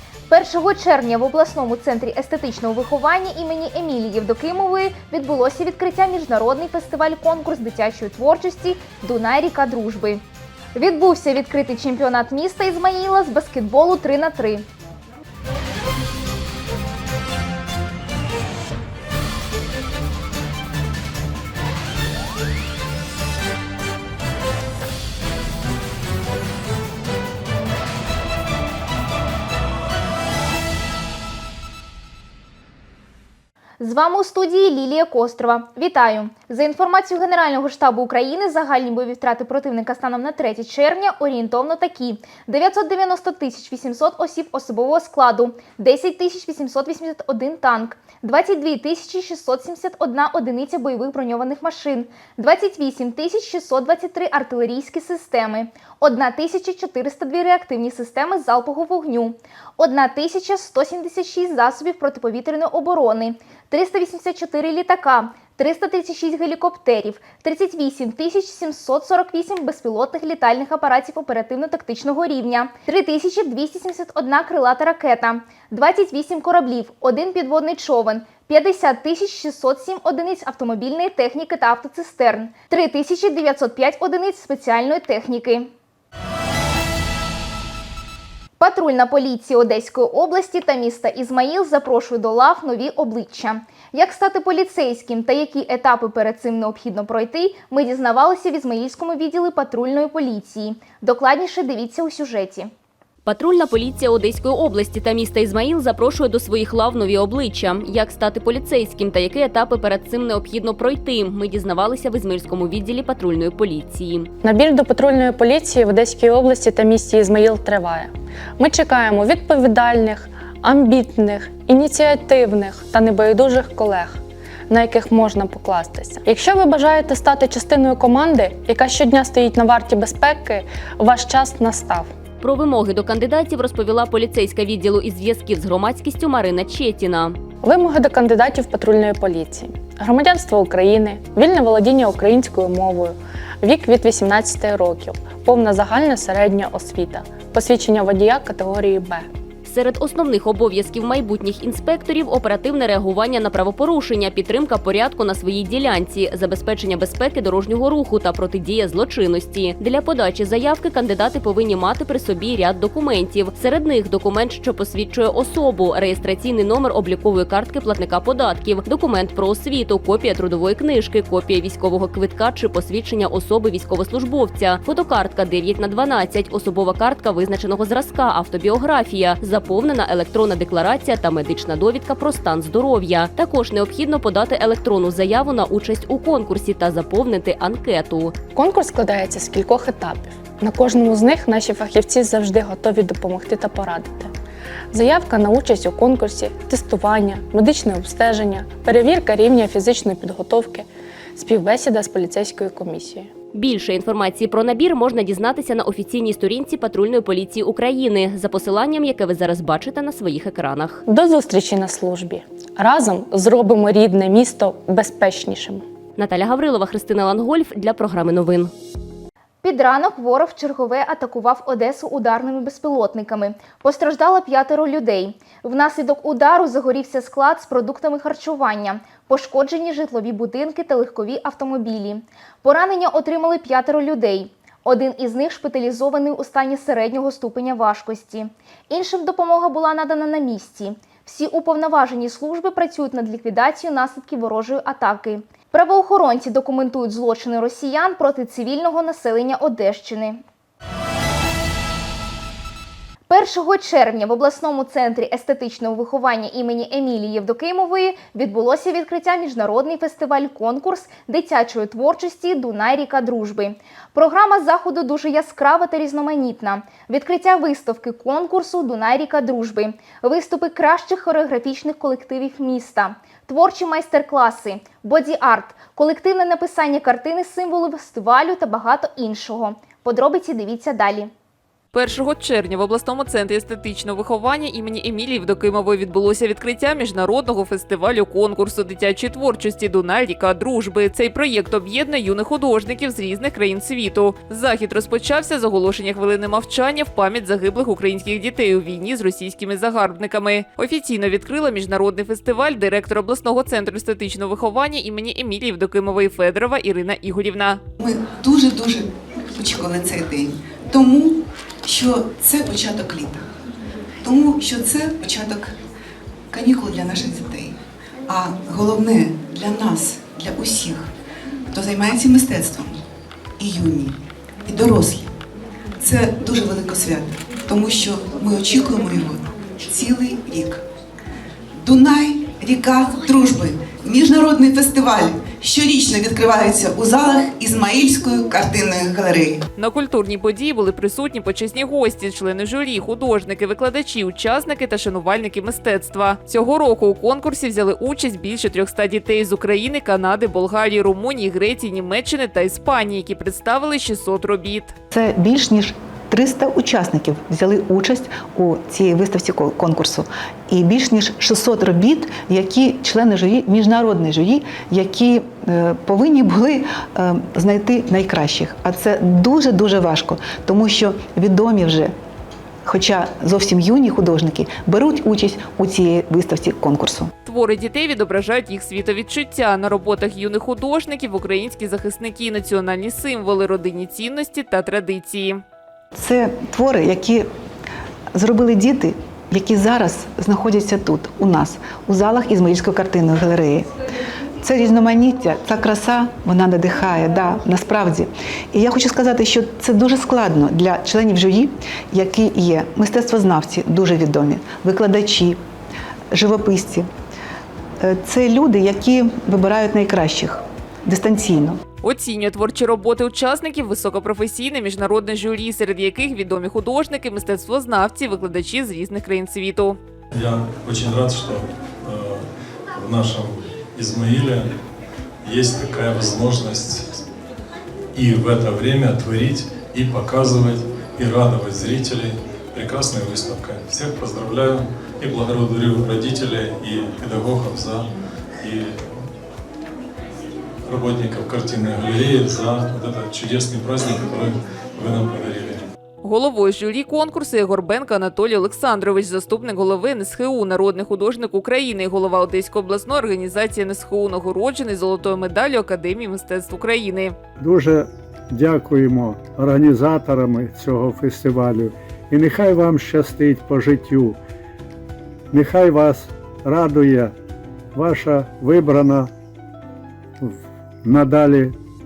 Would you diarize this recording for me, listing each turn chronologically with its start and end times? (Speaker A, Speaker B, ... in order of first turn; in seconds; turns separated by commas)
Speaker A: 0.3-10.2, Speaker A: 10.7-14.7, Speaker A: 33.8-85.7, Speaker A: 88.6-102.7, Speaker B: 103.2-114.3, Speaker C: 114.4-124.2, Speaker C: 124.7-132.1, Speaker B: 132.4-137.4, Speaker C: 137.6-149.2, Speaker B: 149.7-188.4, Speaker C: 188.5-194.3, Speaker C: 194.9-203.3, Speaker B: 203.5-211.0, Speaker C: 211.0-215.8, Speaker B: 216.2-218.7, Speaker A: 219.6-250.4, Speaker A: 253.3-281.3, Speaker D: 281.9-307.8, Speaker E: 308.0-313.4, Speaker E: 314.2-315.7, Speaker E: 316.5-317.8, Speaker E: 318.3-321.1, Speaker E: 321.7-323.0, Speaker E: 323.6-325.3, Speaker E: 326.0-330.8, Speaker E: 331.8-339.6, Speaker D: 339.8-354.9, Speaker F: 355.1-372.1, Speaker F: 372.8-377.3, Speaker D: 377.4-385.6, Speaker F: 386.1-387.4, Speaker F: 388.3-393.9, Speaker F: 394.6-405.6, Speaker F: 406.3-407.1, Speaker F: 408.0-411.8, Speaker D: 412.0-420.0, Speaker G: 420.3-422.4, Speaker G: 422.9-424.7, Speaker G: 425.4-427.2, Speaker G: 428.1-438.1, Speaker G: 438.6-438.9, Speaker G: 440.9-445.8, Speaker D: 446.2-457.3, Speaker H: 457.6-464.4, Speaker H: 465.5-467.3, Speaker H: 467.9-469.3, Speaker H: 470.4-471.7